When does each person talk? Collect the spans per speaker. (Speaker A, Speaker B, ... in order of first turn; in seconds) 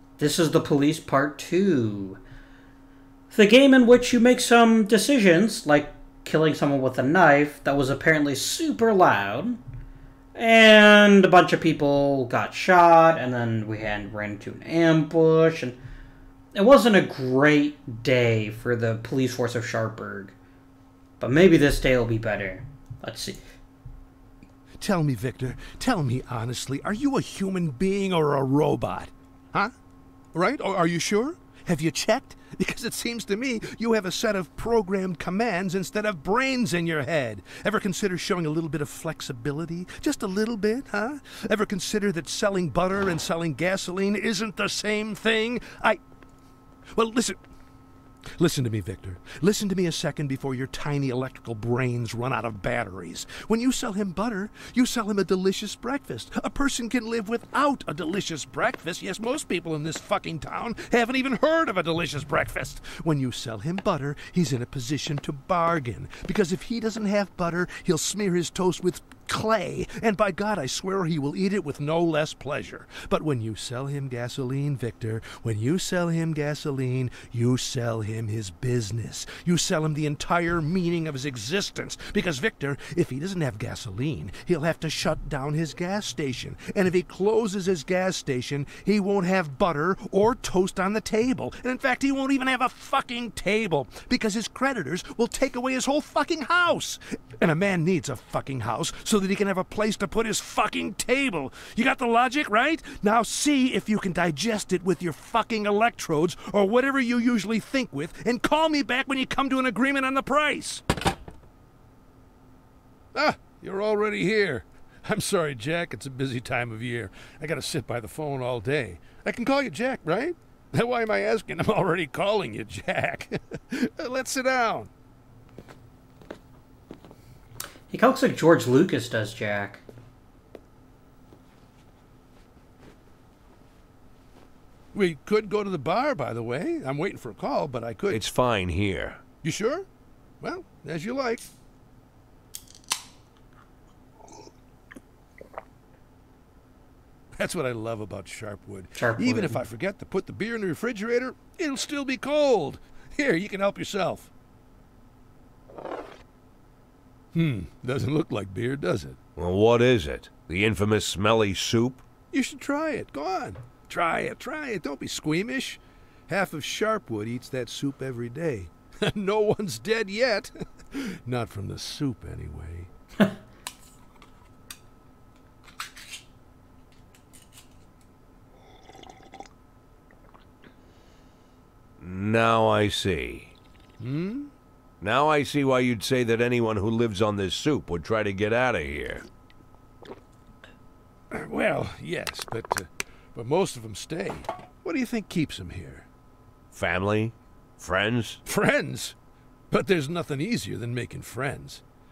Speaker A: 0.2-2.2, 3.3-9.6, 10.3-15.8, 16.5-20.3, 21.2-23.4, 127.9-129.8, 148.9-149.6
Speaker B: 24.8-29.7, 30.3-46.0, 46.9-47.4, 48.4-110.8, 113.1-124.9, 134.9-138.2, 139.4-139.9, 140.4-141.5, 147.3-154.3, 157.3-159.2, 162.3-172.9, 184.0-184.5, 191.3-196.1, 198.4-199.2, 199.7-201.8
Speaker C: 138.1-139.2, 159.4-162.0, 182.0-183.5, 185.0-189.2, 196.7-198.4